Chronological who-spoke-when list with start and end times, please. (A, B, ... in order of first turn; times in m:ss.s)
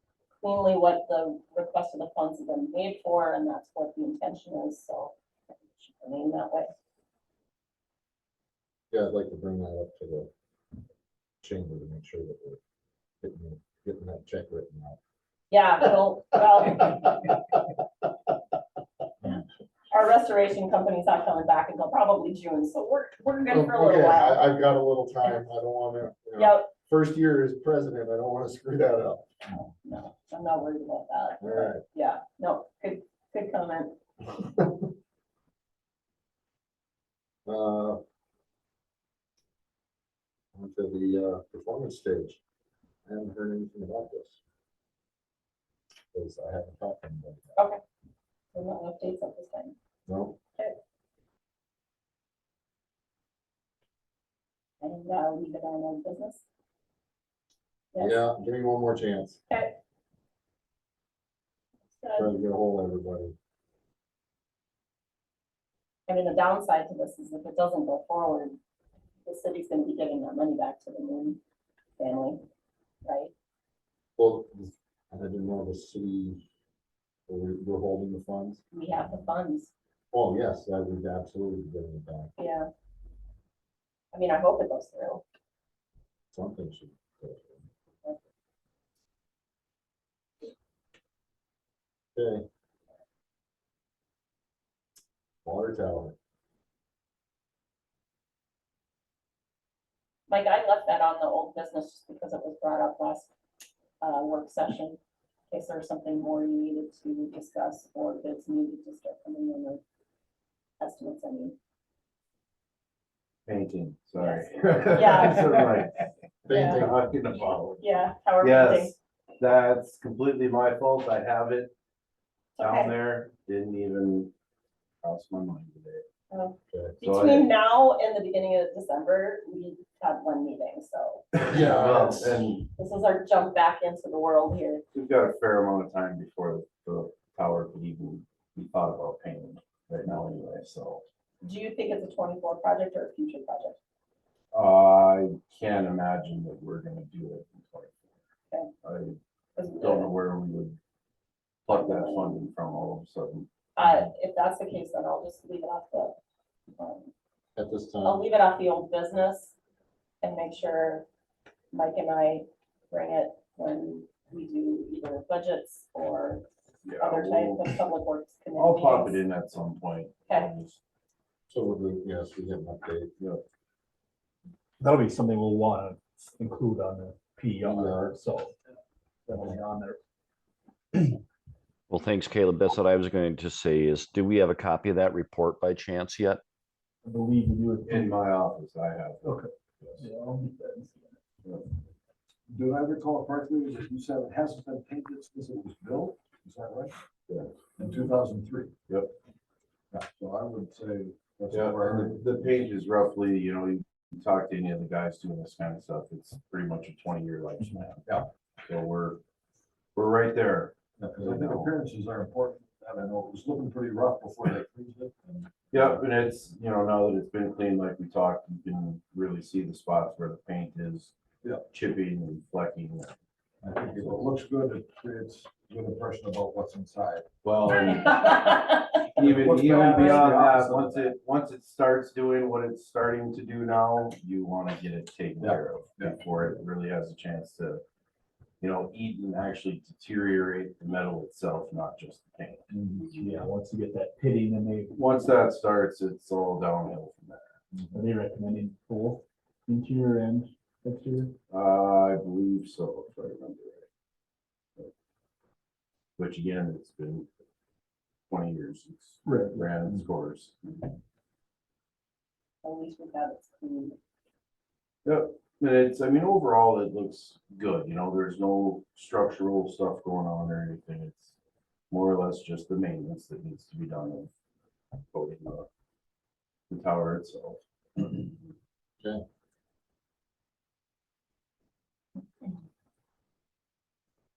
0:00.4-0:06.7 A
0:08.9-0:10.3 B
0:11.4-0:12.6 B
0:13.2-0:15.0 B
0:15.5-0:17.3 A
0:19.9-0:24.5 A
0:23.5-0:29.3 B
0:26.4-0:26.7 A
0:29.5-0:34.0 A
0:31.4-0:31.8 B
0:37.5-0:38.0 B
0:40.5-0:42.4 B
0:43.0-0:44.4 B
0:46.1-0:47.6 B
0:48.5-0:49.7 A
0:50.1-0:50.4 B
0:54.8-0:56.4 A
0:57.9-0:58.2 A
0:58.0-0:59.4 B
0:59.5-0:59.8 A
1:02.0-1:02.3 A
1:02.2-1:03.3 B
1:06.1-1:08.6 A
1:09.2-1:11.4 A
1:12.0-1:12.4 A
1:13.0-1:13.3 A
1:14.2-1:16.4 B
1:17.3-1:18.6 B
1:18.7-1:19.7 A
1:20.1-1:22.3 B
1:22.4-1:22.7 A
1:24.1-1:25.2 A
1:26.3-1:27.6 B
1:32.1-1:32.4 B
1:35.4-1:36.1 B
1:40.3-1:43.3 A
1:44.0-1:45.0 A
1:45.5-1:49.8 A
1:50.8-1:51.5 A
1:53.5-2:01.7 C
1:54.2-1:55.6 A
1:56.4-1:57.1 B
1:56.5-1:58.9 A
2:02.6-2:02.9 A
2:02.6-2:04.3 C
2:05.0-2:06.0 C
2:06.3-2:11.2 A
2:06.7-2:07.0 B
2:07.0-2:07.5 C
2:11.4-2:12.7 C
2:11.4-2:12.5 B
2:12.8-2:14.8 A
2:14.9-2:21.1 C
2:21.4-2:23.8 A
2:24.5-2:28.0 C
2:28.8-2:29.2 C
2:29.6-2:30.1 A
2:29.8-2:30.8 C
2:31.7-2:33.5 C
2:31.7-2:32.4 A
2:33.8-2:36.2 A
2:36.8-2:37.1 A
2:37.6-2:38.2 B
2:38.0-2:39.5 A
2:40.2-2:41.0 A
2:41.7-2:46.4 A
2:46.8-2:47.8 C
2:47.0-2:49.2 A
2:48.6-2:50.8 C
2:51.5-2:53.1 B
2:54.8-2:58.6 D
2:57.6-2:58.2 B
2:59.2-3:00.0 D
3:01.9-3:06.4 E
3:07.0-3:08.2 D
3:07.8-3:10.1 C
3:09.2-3:11.2 D
3:12.5-3:17.0 F
3:17.3-3:17.5 C
3:17.8-3:18.7 F
3:18.9-3:19.1 C
3:19.9-3:22.5 F
3:21.5-3:28.1 C
3:28.7-3:29.2 C
3:29.9-3:31.7 C
3:31.0-3:35.8 F
3:35.7-3:41.1 C
3:41.7-3:43.1 C
3:43.6-3:47.3 F
3:43.9-3:44.2 C
3:47.4-3:48.5 C
3:48.2-3:48.7 A
3:49.1-3:57.8 C
3:49.2-3:51.1 F
3:55.4-3:56.2 F
3:58.6-4:02.7 C
4:02.7-4:05.1 D
4:04.9-4:07.5 C
4:07.8-4:11.3 D
4:11.5-4:13.9 C
4:16.2-4:17.3 C
4:18.3-4:20.9 C
4:19.2-4:20.0 D
4:22.6-4:24.0 A
4:25.0-4:31.3 C
4:31.9-4:34.3 C
4:35.1-4:35.7 C
4:36.7-4:38.3 C